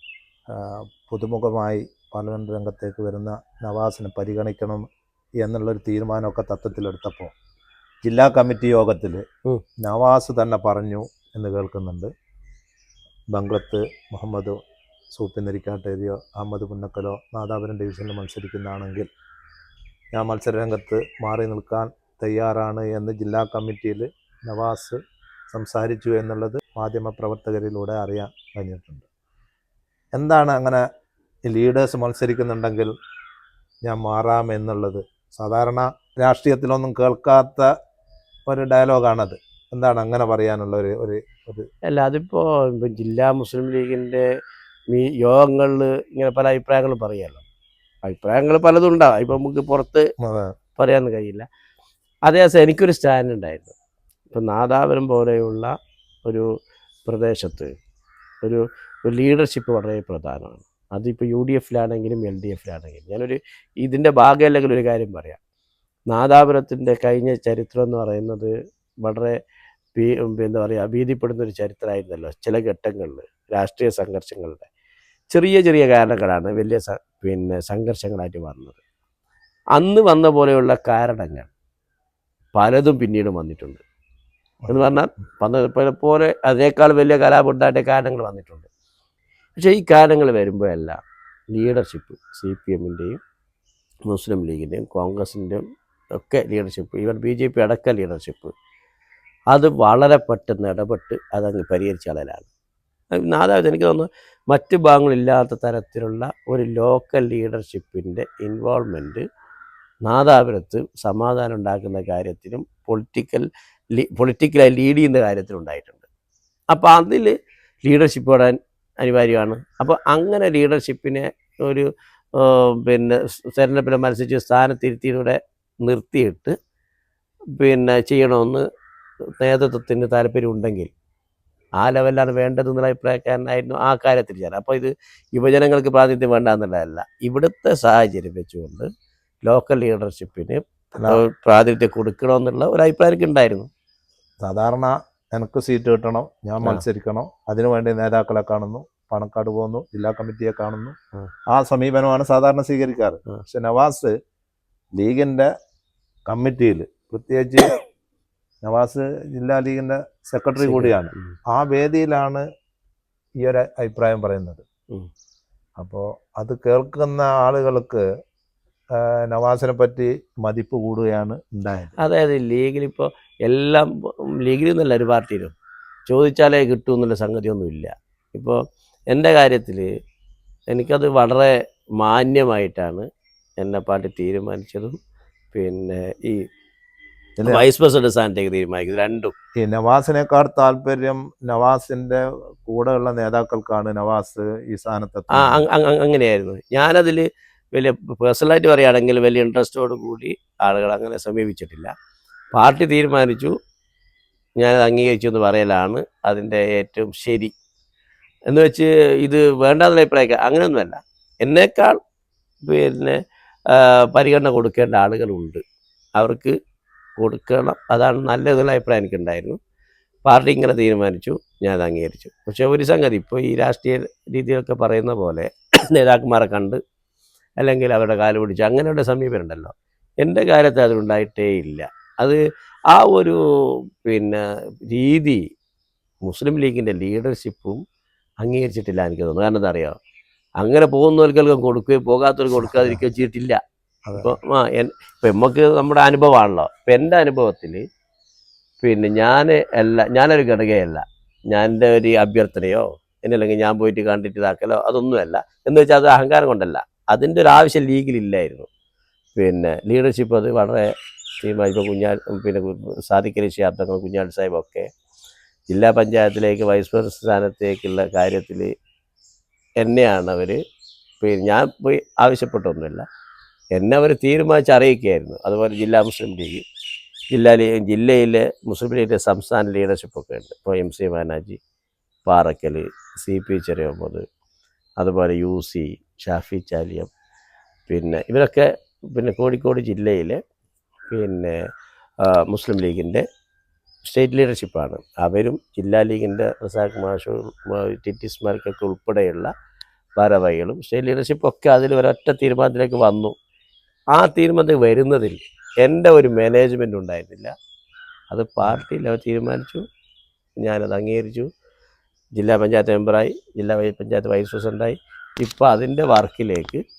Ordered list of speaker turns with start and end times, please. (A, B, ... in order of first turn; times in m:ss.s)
0:00.5-0:04.8 A
0:05.4-0:07.3 A
0:08.0-0:09.2 A
0:09.8-0:12.1 A
0:13.3-0:14.6 A
0:15.2-0:19.1 A
0:20.1-0:25.0 A
0:25.5-0:29.1 A
0:30.2-0:30.8 A
0:31.5-0:32.9 A
0:33.9-0:37.7 A
0:38.5-0:41.7 A
0:41.9-0:44.3 B
0:44.9-0:47.4 B
0:48.1-0:50.1 B
0:50.2-0:50.5 A
0:50.8-0:51.5 B
0:52.3-0:53.8 B
0:54.3-0:55.7 B
0:57.1-0:57.7 B
0:58.4-1:05.4 B
1:06.1-1:09.4 B
1:10.0-1:14.7 B
1:15.3-1:18.8 B
1:19.8-1:21.5 B
1:22.6-1:23.8 B
1:24.7-1:28.7 B
1:29.6-1:31.0 B
1:31.5-1:33.2 B
1:34.1-1:35.6 B
1:36.2-1:38.5 B
1:39.5-1:42.5 B
1:43.1-1:49.2 B
1:50.1-1:56.0 B
1:56.7-1:57.3 B
1:57.8-2:06.5 B
2:07.6-2:08.6 B
2:09.4-2:10.9 B
2:11.8-2:18.9 B
2:19.5-2:23.7 B
2:24.4-2:31.0 A
2:31.5-2:34.1 A
2:35.0-2:35.5 A
2:36.3-2:37.8 A
2:38.6-2:42.4 A
2:40.6-2:41.3 B
2:43.4-2:44.6 A
2:45.8-2:48.0 A
2:49.0-2:51.9 A
2:52.0-2:55.6 B
2:56.1-2:58.6 B
2:59.1-2:59.9 B
3:00.7-3:03.1 B
3:03.6-3:05.0 B
3:05.5-3:06.4 B
3:07.4-3:09.3 B
3:09.6-3:15.6 A
3:15.3-3:21.9 B
3:22.5-3:23.5 B
3:24.6-3:27.5 B
3:28.5-3:32.0 B
3:32.6-3:33.2 B
3:33.7-3:35.6 B
3:36.2-3:36.5 B
3:37.2-3:39.6 B
3:40.3-3:46.8 B
3:47.6-3:52.4 B
3:52.9-3:53.4 B
3:54.0-3:55.4 B
3:56.2-3:57.8 B
3:58.4-4:00.0 B
4:00.6-4:03.6 B
4:02.6-4:03.0 A
4:04.1-4:04.4 A
4:04.2-4:07.8 B
4:08.8-4:18.7 B
4:19.4-4:24.9 B
4:25.7-4:28.7 B
4:29.8-4:30.6 B
4:31.2-4:33.0 B
4:33.8-4:36.7 B
4:37.3-4:41.6 B
4:42.3-4:44.2 B
4:45.0-4:47.1 B
4:47.9-4:50.4 B
4:51.1-4:51.6 B
4:52.2-4:53.2 B
4:54.0-4:59.5 B
5:00.2-5:03.3 B
5:04.2-5:07.5 B
5:08.3-5:09.8 B
5:10.6-5:11.5 B
5:12.4-5:16.8 B